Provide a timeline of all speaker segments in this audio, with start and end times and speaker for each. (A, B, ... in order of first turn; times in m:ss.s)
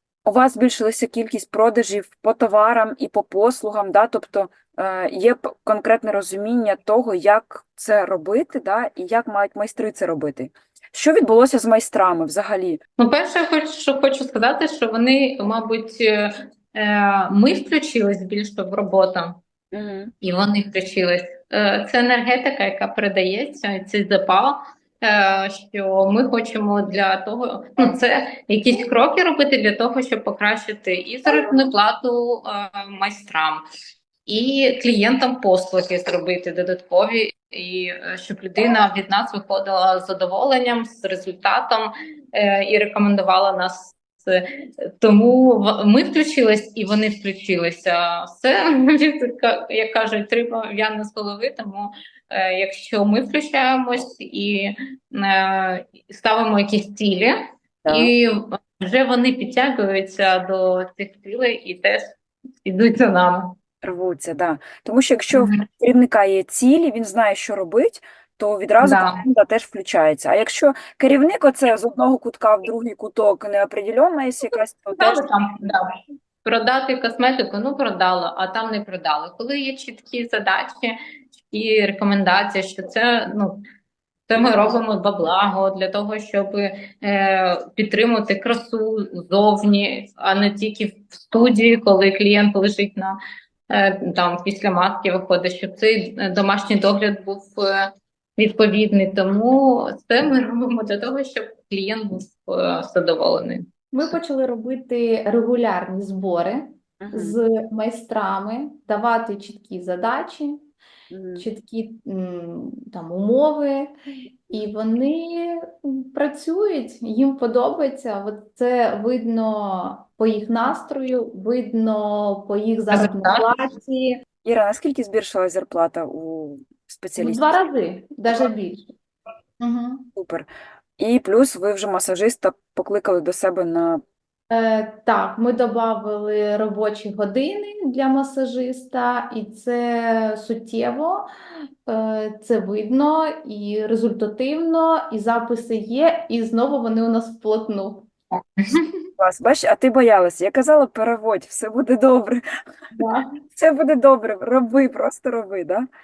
0:00.2-0:12.8 A
0:13.0-0:19.4 B
0:19.7-0:20.1 A
0:20.2-0:33.6 B
0:34.3-0:44.4 B
0:45.0-0:57.3 B
0:57.8-0:58.1 A
0:57.9-1:02.1 B
1:02.6-1:03.5 B
1:03.8-1:15.2 A
1:05.3-1:05.6 B
1:08.8-1:09.2 B
1:14.4-1:15.9 B
1:16.4-1:21.0 B
1:21.5-1:23.6 B
1:24.3-1:33.2 B
1:24.4-1:24.7 A
1:33.7-1:37.8 B
1:38.4-1:43.6 B
1:43.9-1:50.6 C
1:47.0-1:47.4 A
1:51.1-1:51.4 A
1:51.4-1:53.9 C
1:54.5-2:04.2 C
2:02.9-2:03.4 B
2:04.4-2:07.6 A
2:07.2-2:08.9 C
2:09.6-2:10.0 C
2:10.1-2:10.5 A
2:11.0-2:14.0 A
2:14.5-2:21.3 C
2:21.9-2:28.1 C
2:28.3-2:28.9 B
2:29.2-2:32.4 A
2:33.0-2:33.2 C
2:33.5-2:35.8 A